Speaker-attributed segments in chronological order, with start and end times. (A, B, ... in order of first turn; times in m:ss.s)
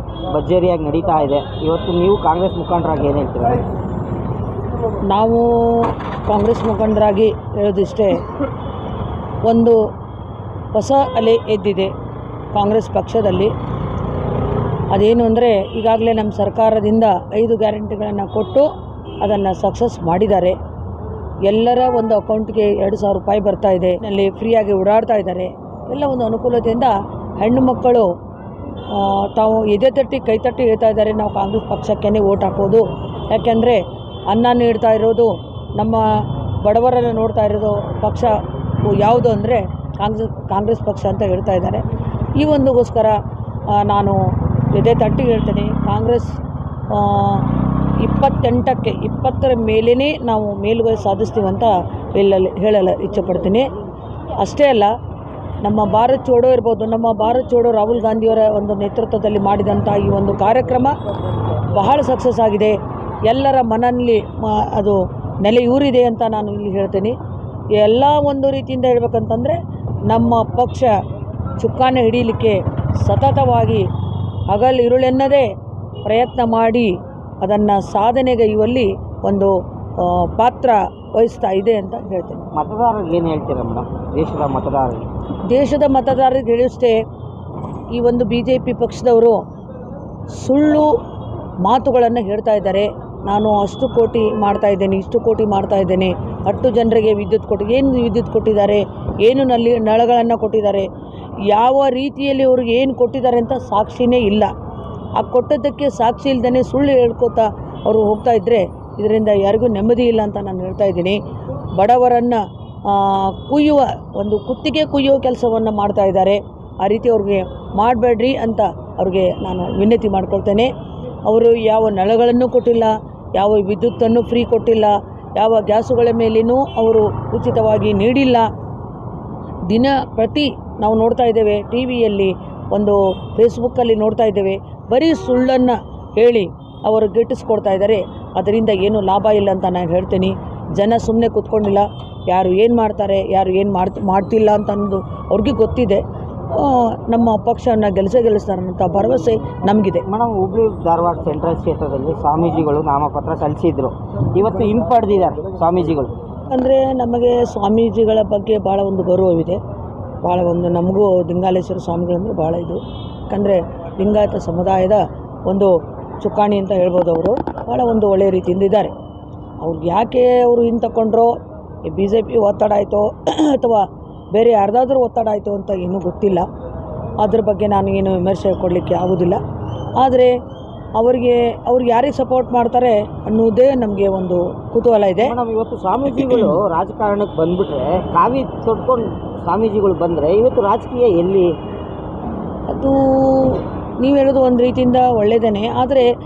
0:00.3-0:03.6 A
0:05.1-0:08.2 B
0:09.4-0:09.8 B
0:10.7-0:11.9 B
0:12.5-0:13.5 B
0:14.9-0:18.7 B
0:19.2-0:20.6 B
0:21.5-0:28.1 B
0:28.9-0:36.0 B
0:36.6-0:38.3 B
0:38.8-0:41.8 B
0:42.4-0:43.1 B
0:43.8-0:44.2 B
0:44.7-0:46.4 B
0:46.9-0:47.4 B
0:48.0-0:53.7 B
0:54.4-0:54.9 B
0:55.6-1:00.9 B
1:01.7-1:02.7 B
1:03.3-1:07.1 B
1:07.8-1:09.6 B
1:10.1-1:10.9 B
1:11.6-1:13.8 B
1:14.5-1:15.5 B
1:16.0-1:22.4 B
1:22.5-1:25.1 A
1:25.5-1:27.0 B
1:27.9-1:29.4 B
1:30.4-1:30.9 B
1:31.6-1:40.8 B
1:41.5-1:44.5 B
1:45.2-1:51.2 B
1:51.8-2:00.7 B
2:01.3-2:08.4 B
2:09.7-2:30.0 B
2:30.0-2:36.2 A
2:36.5-2:39.6 B
2:40.2-2:42.8 B
2:43.3-2:48.9 B
2:49.6-2:51.3 B
2:51.8-2:56.4 B
2:57.2-2:59.4 B
3:00.0-3:00.3 B
3:01.0-3:05.3 B
3:05.2-3:11.5 A
3:12.7-3:16.1 B